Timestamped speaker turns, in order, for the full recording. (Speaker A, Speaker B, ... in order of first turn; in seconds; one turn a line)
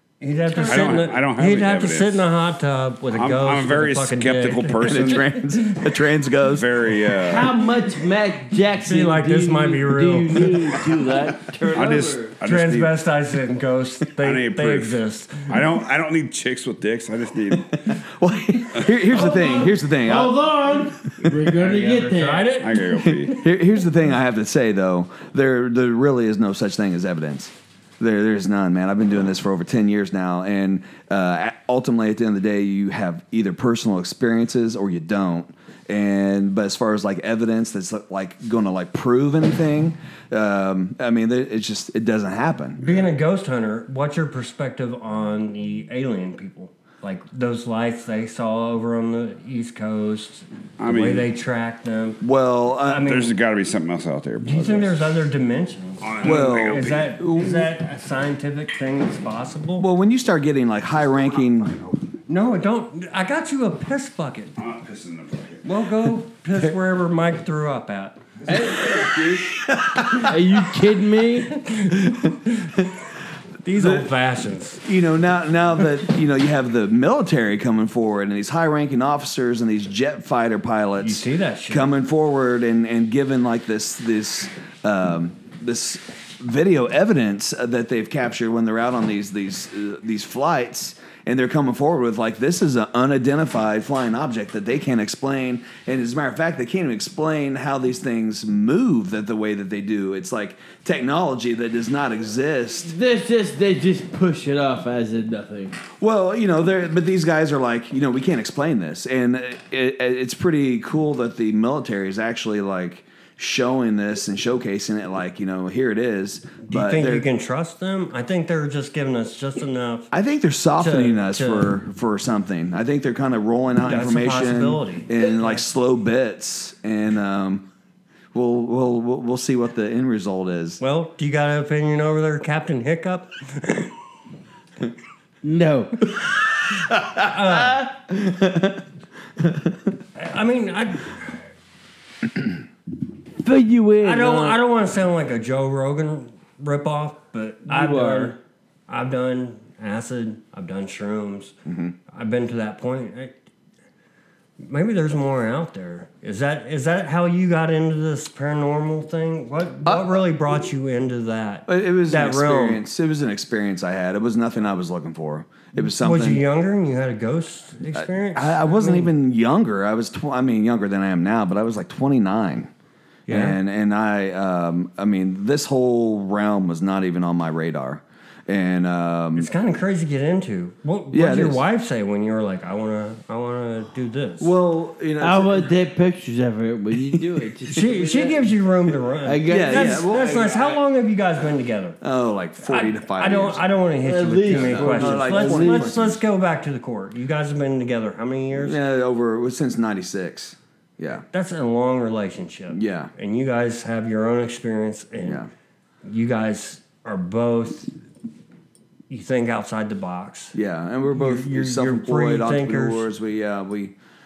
Speaker A: 0.2-5.2
Speaker B: 0.5-1.0
Speaker C: 0.6-2.2
Speaker C: 3.1-5.3
Speaker D: 4.8-6.8
Speaker C: 6.4-7.6
Speaker B: 7.2-12.3
Speaker A: 8.8-10.6
Speaker C: 11.6-13.0
Speaker A: 12.4-15.5
Speaker C: 14.2-17.8
Speaker D: 17.7-20.4
Speaker B: 19.1-22.6
Speaker A: 21.5-23.2
Speaker C: 22.6-23.4
Speaker D: 23.0-42.8
Speaker A: 42.8-52.2
Speaker C: 50.8-51.3
Speaker D: 52.2-53.1
Speaker A: 52.8-53.3
Speaker C: 53.0-55.1
Speaker A: 54.4-59.9
Speaker C: 56.0-57.1
Speaker D: 56.2-57.7
Speaker D: 59.8-61.8
Speaker A: 62.3-64.5
Speaker C: 64.6-65.6
Speaker A: 65.6-68.2
Speaker B: 68.5-69.5
Speaker D: 69.5-70.4
Speaker B: 70.1-71.5
Speaker A: 71.5-72.8
Speaker D: 72.0-72.3
Speaker A: 73.6-74.8
Speaker D: 73.8-74.1
Speaker D: 74.8-102.9
Speaker A: 81.0-81.9
Speaker B: 102.8-105.8
Speaker D: 106.0-117.2
Speaker A: 116.6-120.1
Speaker D: 120.1-127.7
Speaker A: 120.8-121.8
Speaker A: 123.8-125.5
Speaker D: 128.3-130.8
Speaker A: 130.8-133.9
Speaker B: 135.4-136.1
Speaker D: 136.8-137.2
Speaker A: 137.2-137.9
Speaker D: 138.1-138.8
Speaker D: 139.4-139.7
Speaker A: 140.1-141.4
Speaker B: 143.4-144.6
Speaker A: 144.0-151.5
Speaker B: 147.7-148.3
Speaker D: 151.7-151.9
Speaker A: 152.1-153.4
Speaker A: 154.6-162.8
Speaker D: 159.8-160.2
Speaker D: 161.7-166.4
Speaker A: 165.9-169.1
Speaker D: 167.9-172.7
Speaker A: 173.3-173.6
Speaker D: 173.3-179.5
Speaker A: 179.3-184.5
Speaker D: 181.1-181.6
Speaker D: 184.4-185.7
Speaker B: 185.2-188.5
Speaker A: 187.7-192.0
Speaker B: 189.2-190.6
Speaker D: 189.4-190.8
Speaker D: 192.0-193.6
Speaker A: 192.6-198.8
Speaker B: 194.0-195.9
Speaker D: 194.5-196.2
Speaker D: 198.6-201.2
Speaker A: 201.3-205.4
Speaker D: 202.7-203.1
Speaker A: 206.0-207.9
Speaker A: 209.1-210.5
Speaker D: 210.5-213.9
Speaker A: 211.1-213.1